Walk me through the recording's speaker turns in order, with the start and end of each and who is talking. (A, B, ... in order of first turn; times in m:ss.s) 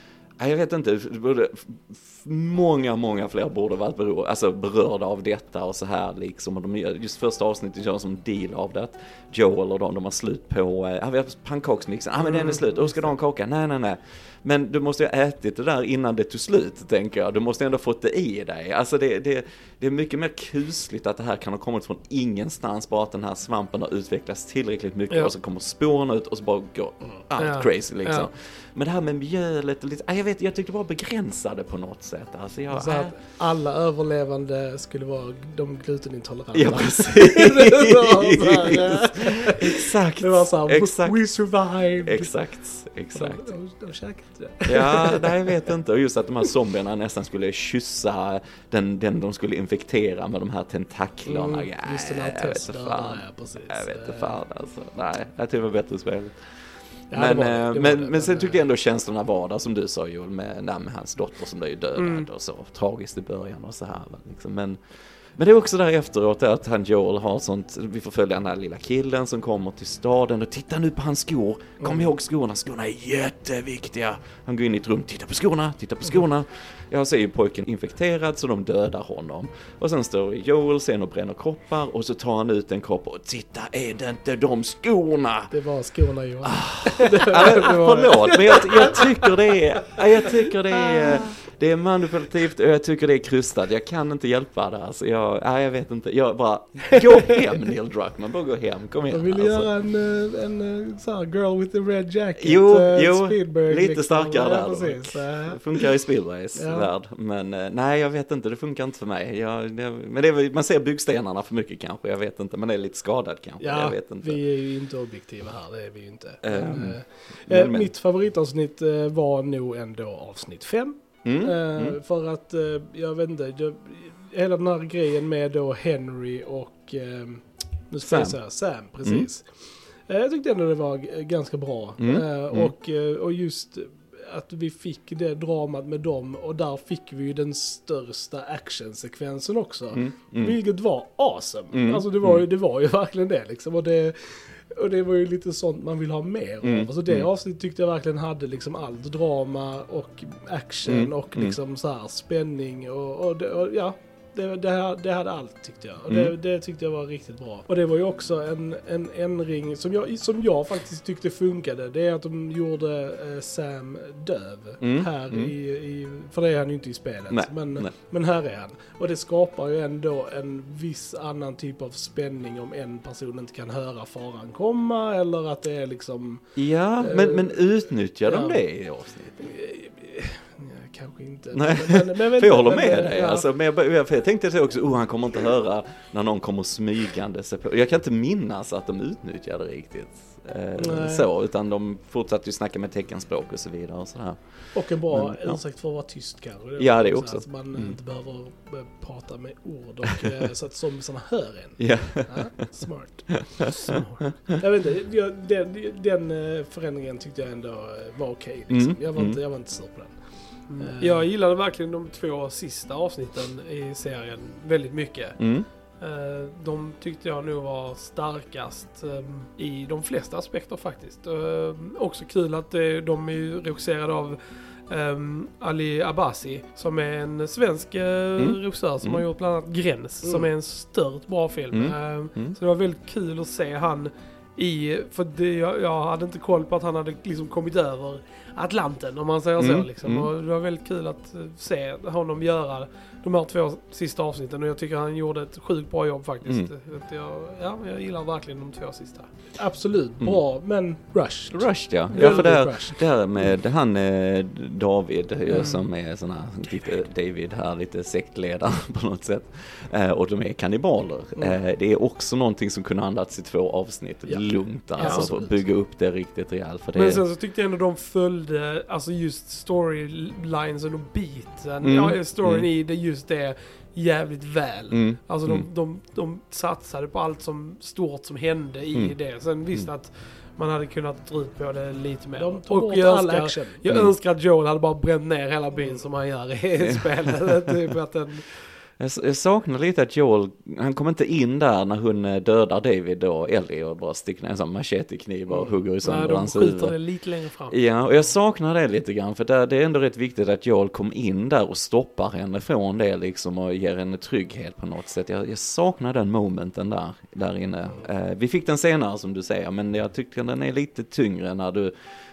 0:00.4-0:33.1 A
0:27.4-0:28.3 B
0:32.7-0:42.3 C
0:36.5-0:41.2 A
0:42.0-0:43.5 A
0:43.1-0:45.5 C
0:44.6-0:56.3 A
0:51.2-0:54.4 C
0:57.1-0:58.6 C
0:57.1-1:04.8 A
1:02.0-1:02.3 B
1:05.4-1:25.5 A
1:11.8-1:12.1 C
1:25.5-1:29.3 C
1:26.4-1:39.7 A
1:39.1-1:45.9 C
1:42.4-1:54.4 A
1:46.5-1:46.9 C
1:53.6-2:09.5 C
1:56.4-1:57.9 A
2:01.2-2:02.0 A
2:08.0-2:08.4 A
2:10.1-2:56.4 C
2:12.0-2:12.7 A
2:19.9-2:20.6 A
2:21.7-2:22.4 A
2:26.6-2:27.3 A
2:30.9-2:31.6 A
2:36.1-2:36.3 A
2:44.8-2:45.5 A
2:47.3-2:47.9 A
2:56.5-2:59.4 A
2:57.0-2:57.5 C
2:58.2-2:58.6 C
2:59.4-3:03.4 C
3:01.5-3:14.4 A
3:10.8-3:11.3 C
3:14.7-3:23.7 C
3:15.1-3:15.6 A
3:16.8-3:18.0 A
3:21.8-3:22.7 A
3:23.3-3:23.9 A
3:23.8-3:24.3 B
3:24.6-3:31.2 C
3:28.7-3:29.4 A
3:30.7-3:35.4 B
3:35.4-3:35.7 A
3:36.0-4:09.3 B
3:48.4-3:49.2 A
3:50.2-3:50.5 C
3:51.7-3:52.6 A
3:59.6-4:00.3 A
4:06.4-4:06.7 A
4:09.6-4:13.0 C
4:11.5-4:27.2 A
4:15.5-4:15.8 B
4:24.2-4:25.6 C
4:25.0-4:25.3 B
4:26.9-4:48.5 B
4:31.8-4:32.7 A
4:34.9-4:35.7 A
4:42.4-4:43.8 C
4:43.9-4:44.1 A
4:46.8-4:47.3 A
4:49.0-4:57.0 A
4:56.0-4:57.8 B
4:57.7-5:11.9 A